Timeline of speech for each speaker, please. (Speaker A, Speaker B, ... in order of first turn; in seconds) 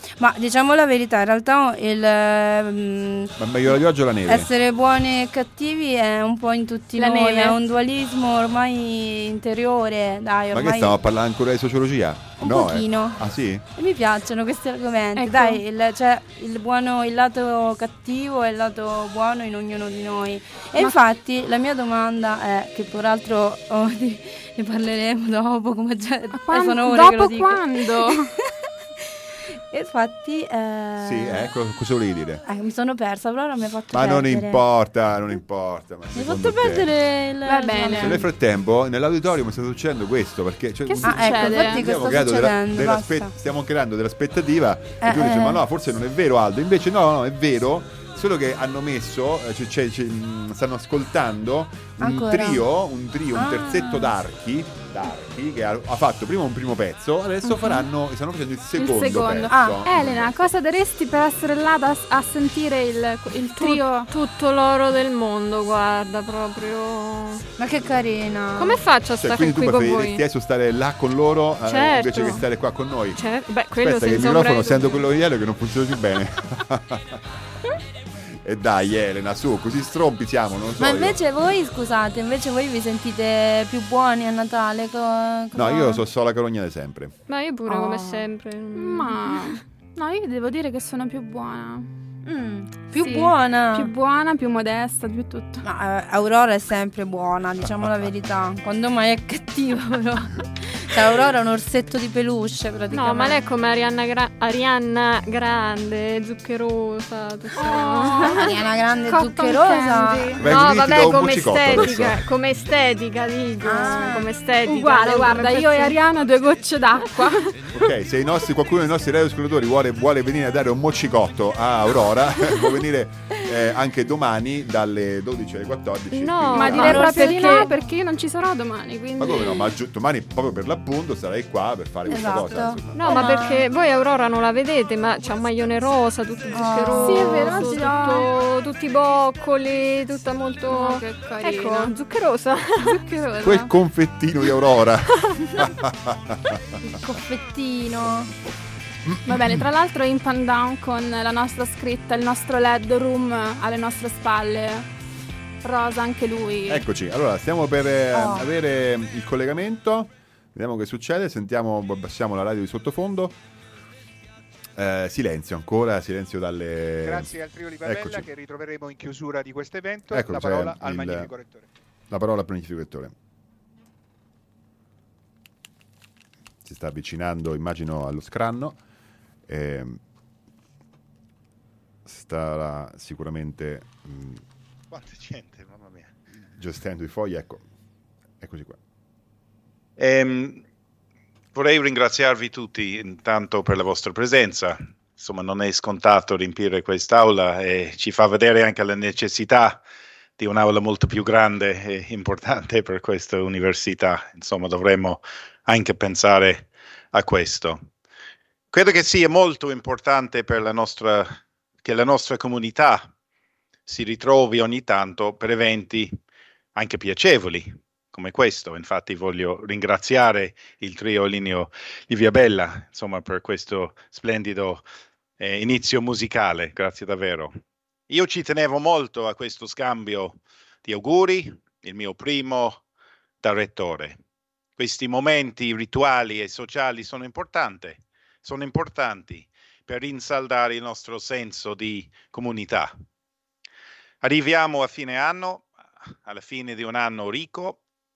Speaker A: 0.2-3.8, 4.3-10.9, 12.4-13.2, 13.8-28.3, 29.7-31.5, 32.4-34.6, 36.1-38.2, 41.0-43.3, 45.0-45.6, 52.0-52.6, 53.3-54.1, 59.5-59.8, 67.6-68.8, 80.8-86.0, 87.7-88.2, 92.2-93.9, 95.6-103.4, 108.3-110.4, 113.6-114.3, 126.7-127.7, 132.1-133.6, 136.5-138.2, 146.8-148.3, 158.1-158.5
Speaker B: 3.4-4.5, 10.5-13.6, 31.0-32.4, 33.9-36.9, 38.0-60.5, 69.2-73.2, 73.8-77.2, 78.4-81.2, 85.5-87.1, 110.4-112.2, 117.7-127.3, 129.2-133.1, 143.4-146.6, 149.1-149.6, 156.7-163.3, 164.8-168.3, 170.1-171.3, 172.1-173.1, 176.6-178.8, 179.5-180.0, 182.1-184.4, 186.6-187.6, 188.4-188.8
Speaker C: 7.0-7.6, 15.2-15.6, 26.3-28.3, 37.4-38.2, 40.9-41.9, 57.4-57.9, 58.8-64.1, 88.8-91.9, 93.0-95.6, 107.6-110.3, 114.7-117.5, 126.5-129.7, 136.8-138.3, 140.7-141.9, 142.9-143.7, 149.3-154.9, 155.6-156.8
Speaker D: 63.6-67.4, 68.6-70.2, 71.7-72.4, 73.2-75.1, 87.3-89.4, 102.9-108.5, 110.3-116.0, 126.1-127.7, 132.9-143.0
Speaker E: 167.1-171.7
Speaker F: 184.9-186.1, 190.0-190.6, 191.6-199.8, 200.4-207.8, 208.7-213.1, 213.9-216.1, 216.8-224.8, 225.4-227.6, 228.1-232.8, 233.4-234.2, 234.8-242.9, 244.2-245.7, 246.2-247.8